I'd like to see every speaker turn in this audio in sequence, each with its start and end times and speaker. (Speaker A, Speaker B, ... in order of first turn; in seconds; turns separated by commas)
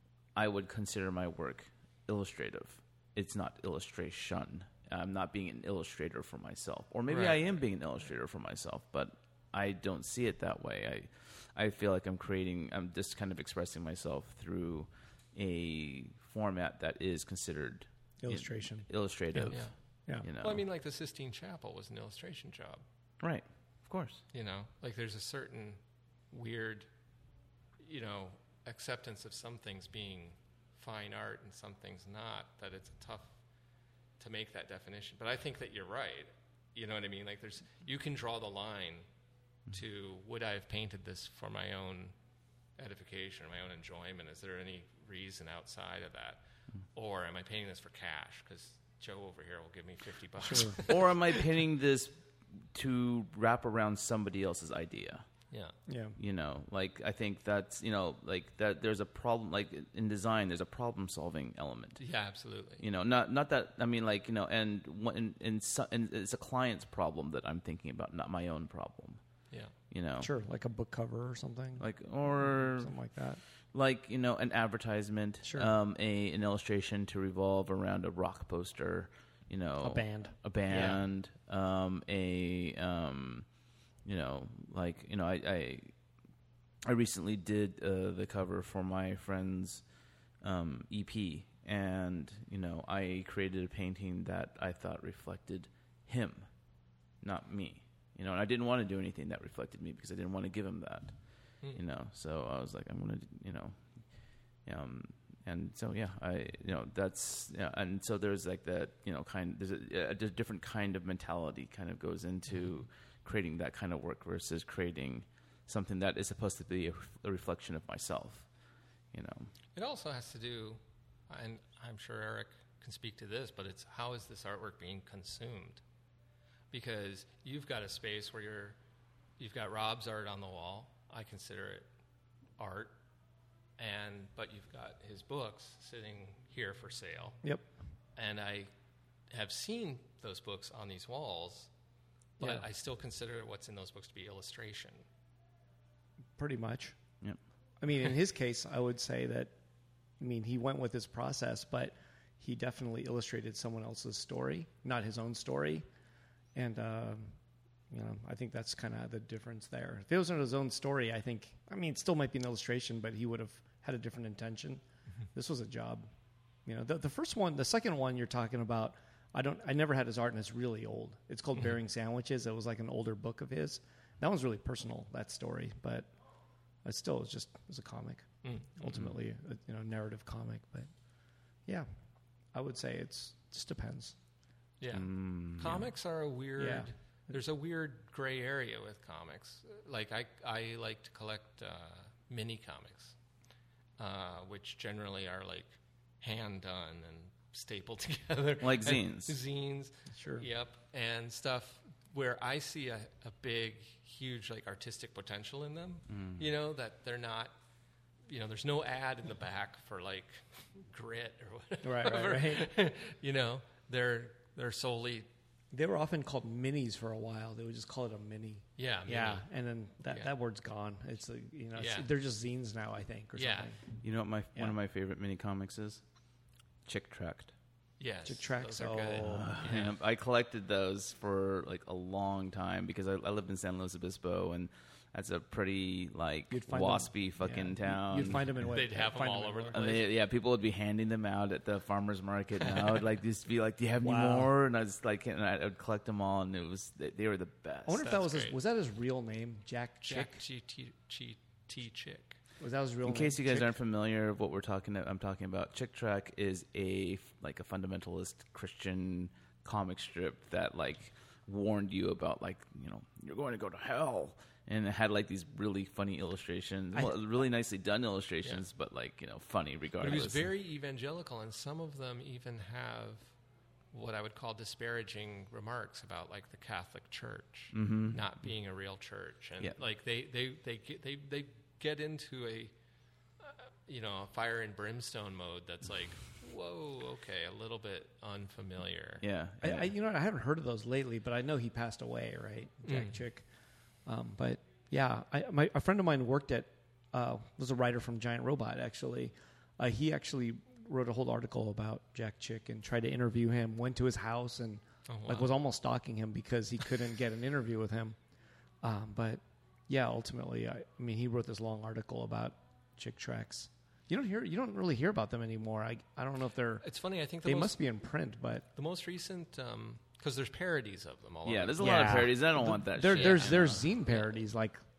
Speaker A: 0.3-19.7, Speaker B: 7.1-7.6, Speaker C: 18.2-19.5, Speaker A: 20.2-20.6, Speaker B: 20.4-22.8, Speaker A: 23.2-24.2, Speaker B: 24.3-25.8, Speaker B: 26.3-26.9, Speaker B: 27.8-33.3, Speaker B: 34.2-39.0, Speaker B: 39.7-42.1, Speaker B: 42.8-46.4, Speaker B: 46.9-51.4, Speaker C: 50.4-50.8, Speaker A: 50.8-55.3, Speaker C: 55.9-56.2, Speaker A: 56.2-62.0, Speaker B: 62.0-62.8, Speaker A: 62.8-69.2, Speaker A: 69.9-70.3, Speaker C: 70.2-71.8, Speaker A: 71.8-72.9, Speaker C: 72.8-73.4, Speaker A: 73.7-83.5, Speaker C: 75.4-75.7, Speaker C: 79.8-81.0, Speaker B: 80.7-81.0, Speaker A: 84.0-85.9, Speaker A: 86.8-89.8, Speaker A: 90.4-96.5, Speaker A: 97.2-101.1, Speaker A: 101.7-103.8, Speaker A: 104.6-118.5, Speaker A: 119.1-119.5, Speaker B: 119.7-125.8, Speaker B: 126.7-128.8, Speaker B: 129.4-131.9, Speaker B: 132.6-132.9, Speaker B: 133.8-137.4, Speaker B: 138.2-138.7, Speaker B: 139.3-141.7, Speaker B: 142.4-145.0, Speaker C: 142.4-142.7, Speaker C: 146.4-147.0, Speaker C: 147.8-149.5, Speaker C: 150.2-155.8, Speaker C: 156.5-157.3, Speaker C: 157.9-164.8, Speaker C: 165.3-166.1, Speaker C: 166.7-176.1, Speaker C: 176.8-180.9, Speaker B: 178.4-178.7, Speaker A: 178.8-179.1, Speaker C: 182.5-184.2, Speaker B: 184.8-193.1, Speaker A: 184.9-185.9, Speaker C: 186.6-186.9, Speaker B: 194.0-207.5, Speaker A: 198.6-199.4, Speaker C: 200.1-200.5, Speaker A: 206.1-206.4, Speaker B: 208.3-215.3, Speaker C: 211.8-212.7, Speaker C: 215.7-223.8, Speaker B: 218.8-219.4, Speaker B: 221.8-222.1, Speaker B: 223.4-223.7, Speaker A: 224.0-226.0, Speaker A: 226.8-227.5, Speaker B: 228.0-229.9, Speaker C: 228.2-229.6, Speaker A: 229.2-238.5, Speaker C: 236.5-239.8, Speaker B: 238.6-240.1, Speaker A: 239.7-248.1, Speaker B: 242.7-243.0, Speaker C: 244.0-244.5, Speaker C: 247.8-250.4, Speaker B: 248.0-248.6, Speaker B: 250.1-252.4, Speaker C: 252.6-253.7, Speaker A: 253.0-270.5, Speaker B: 270.0-273.2, Speaker B: 273.9-282.7, Speaker A: 277.7-278.2, Speaker B: 283.4-289.2, Speaker A: 289.2-289.9, Speaker C: 289.6-293.4, Speaker B: 292.9-293.1, Speaker C: 294.1-308.2, Speaker B: 305.1-305.5, Speaker C: 308.8-316.8, Speaker B: 316.8-317.8, Speaker C: 317.4-318.7, Speaker B: 318.8-322.3, Speaker A: 321.4-323.9, Speaker C: 321.8-324.8, Speaker B: 323.1-324.4